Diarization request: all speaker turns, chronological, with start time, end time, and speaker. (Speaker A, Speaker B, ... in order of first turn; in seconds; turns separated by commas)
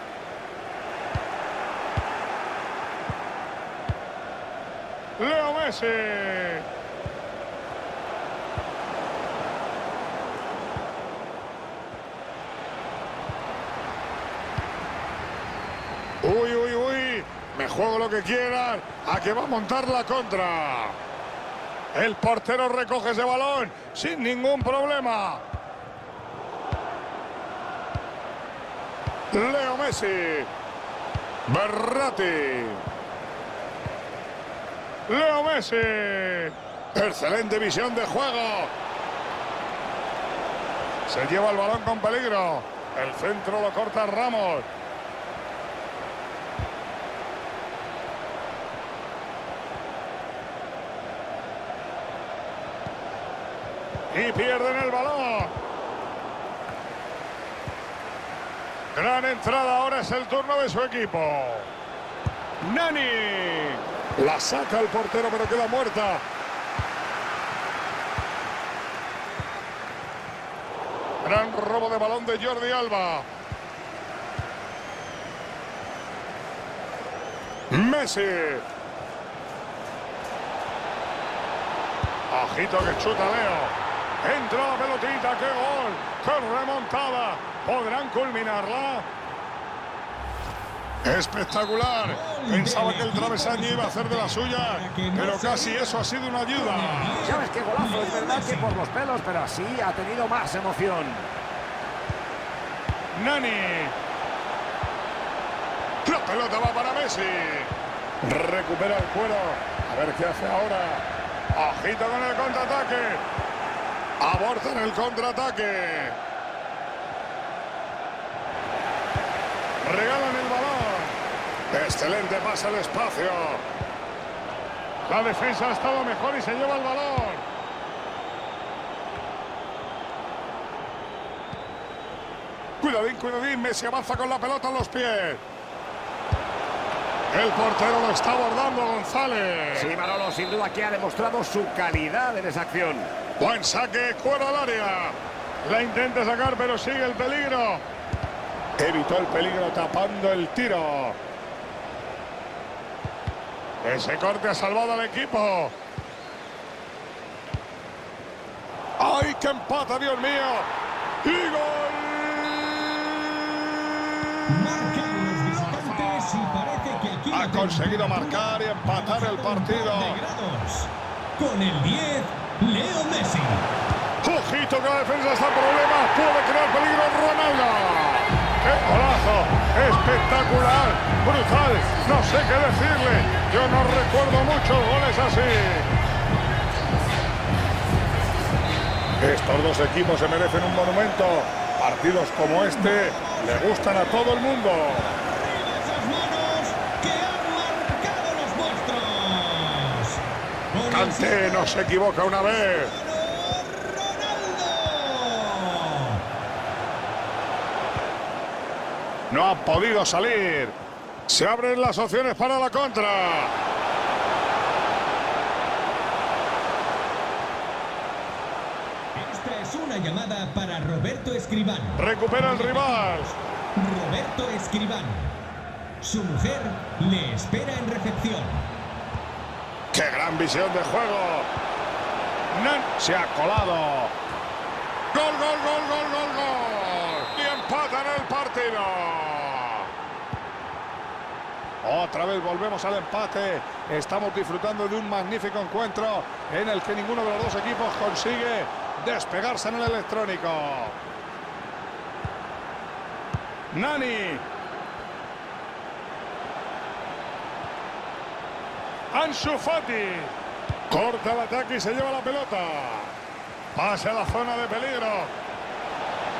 Speaker A: 5.2-6.7, Speaker A: 16.2-21.0, Speaker A: 21.9-25.4, Speaker A: 29.3-30.5, Speaker A: 31.5-32.8, Speaker A: 35.1-38.7, Speaker A: 41.1-44.6, Speaker A: 54.1-55.5, Speaker A: 58.9-61.7, Speaker A: 62.6-66.2, Speaker A: 71.2-73.2, Speaker A: 77.7-78.6, Speaker A: 82.3-89.0, Speaker A: 91.0-97.3, Speaker B: 92.0-98.8, Speaker C: 97.2-101.3, Speaker A: 103.1-103.9, Speaker A: 106.0-113.2, Speaker A: 114.2-116.2, Speaker A: 119.8-121.2, Speaker A: 121.7-123.6, Speaker A: 125.0-127.4, Speaker A: 132.8-135.4, Speaker A: 137.3-139.9, Speaker C: 139.7-143.1, Speaker A: 143.4-147.8, Speaker A: 148.8-151.2, Speaker A: 153.8-155.7, Speaker A: 159.0-160.7, Speaker A: 161.2-170.2, Speaker B: 164.5-173.7, Speaker A: 174.2-185.9, Speaker A: 189.2-195.1, Speaker B: 192.5-193.7, Speaker B: 195.1-201.9, Speaker A: 200.9-202.9, Speaker B: 202.4-206.2, Speaker A: 209.3-210.8, Speaker A: 211.3-213.5, Speaker B: 219.1-225.3, Speaker A: 221.9-223.3, Speaker B: 226.0-228.7, Speaker A: 229.9-231.5, Speaker A: 232.5-234.1, Speaker A: 235.1-239.9, Speaker A: 241.8-250.9, Speaker A: 253.7-254.4, Speaker A: 259.1-260.3, Speaker A: 260.9-263.1, Speaker A: 263.7-265.3